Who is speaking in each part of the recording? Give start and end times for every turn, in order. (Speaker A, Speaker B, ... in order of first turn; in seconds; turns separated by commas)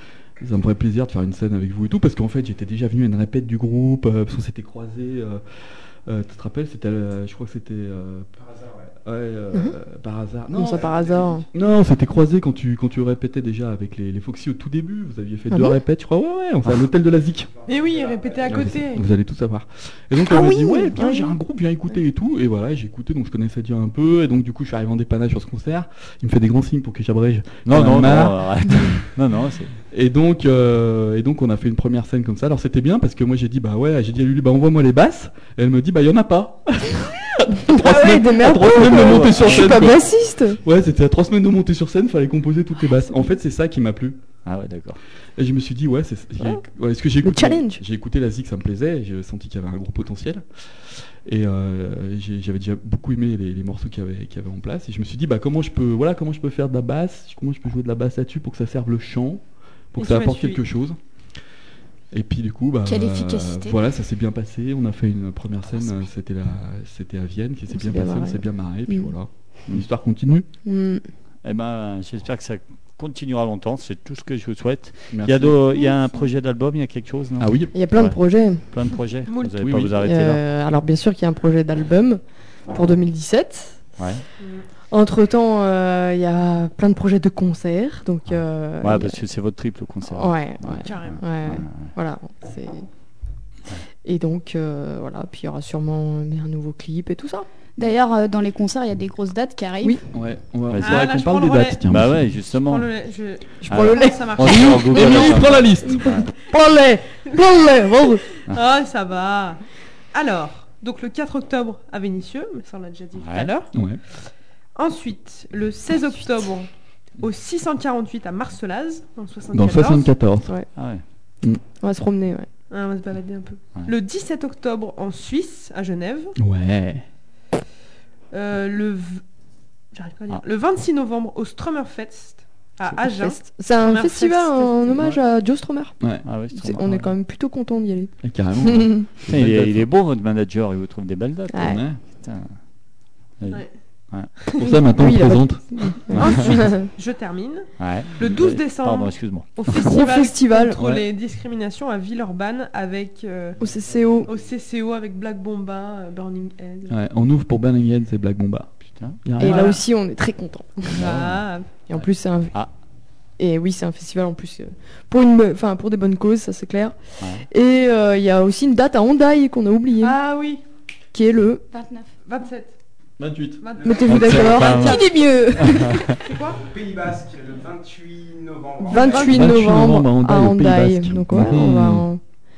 Speaker A: 0.4-8.3, Speaker A: 9.1-10.9, Speaker B: 10.5-11.5, Speaker C: 10.9-11.3, Speaker A: 11.5-17.5, Speaker B: 15.5-15.8, Speaker D: 17.7-19.1, Speaker A: 18.5-29.1, Speaker E: 20.3-21.0, Speaker B: 20.3-21.3, Speaker F: 27.7-29.8, Speaker A: 29.9-44.2, Speaker B: 37.7-40.6, Speaker F: 44.5-45.0, Speaker A: 45.4-61.0, Speaker B: 47.2-47.8, Speaker D: 60.0-60.6, Speaker A: 62.1-70.5, Speaker E: 62.9-63.8, Speaker B: 67.7-69.1, Speaker B: 70.7-71.0, Speaker F: 71.4-80.4, Speaker A: 75.1-75.6, Speaker A: 77.4-77.7, Speaker B: 77.7-78.7, Speaker D: 79.3-79.6, Speaker A: 79.5-80.0, Speaker B: 80.0-83.8, Speaker F: 84.0-84.2, Speaker D: 84.4-84.7, Speaker B: 84.9-89.2, Speaker F: 88.8-91.9, Speaker B: 90.1-92.9, Speaker D: 90.8-91.2, Speaker B: 94.0-97.5, Speaker E: 97.8-100.0, Speaker A: 100.1-102.4, Speaker F: 100.7-101.1, Speaker D: 100.8-101.8, Speaker F: 101.9-102.9, Speaker D: 102.5-105.5, Speaker B: 103.6-108.3, Speaker F: 103.7-106.3, Speaker A: 104.4-106.1, Speaker D: 108.5-109.6, Speaker D: 110.1-113.8, Speaker F: 113.2-113.5, Speaker A: 113.7-114.0, Speaker D: 114.8-120.2, Speaker A: 119.5-120.5, Speaker F: 120.8-121.0, Speaker B: 121.8-122.5, Speaker D: 122.7-126.4, Speaker A: 126.4-127.0, Speaker D: 128.3-129.2, Speaker D: 129.9-135.1, Speaker B: 133.0-139.1, Speaker A: 136.0-136.3, Speaker F: 136.2-136.9, Speaker A: 136.8-137.1, Speaker A: 138.2-139.9, Speaker F: 139.3-142.5, Speaker B: 141.5-141.8, Speaker A: 141.6-142.0, Speaker F: 143.4-144.3, Speaker D: 143.5-143.8, Speaker D: 144.4-144.8, Speaker A: 144.6-146.0, Speaker B: 145.0-146.9, Speaker F: 146.1-146.7, Speaker D: 146.2-153.6, Speaker F: 147.8-149.6, Speaker B: 149.7-150.8, Speaker A: 150.8-151.1, Speaker B: 153.6-154.3, Speaker D: 154.3-157.0, Speaker A: 156.9-158.7, Speaker F: 158.9-159.2, Speaker A: 159.2-159.8, Speaker B: 159.4-161.2, Speaker D: 159.4-159.8, Speaker D: 160.9-161.7, Speaker F: 161.0-162.7, Speaker B: 161.8-162.7, Speaker B: 163.4-170.2, Speaker D: 170.0-170.6, Speaker B: 171.1-171.7, Speaker E: 171.7-172.1, Speaker D: 172.2-172.8, Speaker A: 173.2-173.6, Speaker D: 173.6-176.6, Speaker B: 173.9-176.2, Speaker F: 174.1-176.1, Speaker C: 176.6-179.3, Speaker D: 178.8-179.6, Speaker B: 178.8-182.4, Speaker A: 179.3-182.1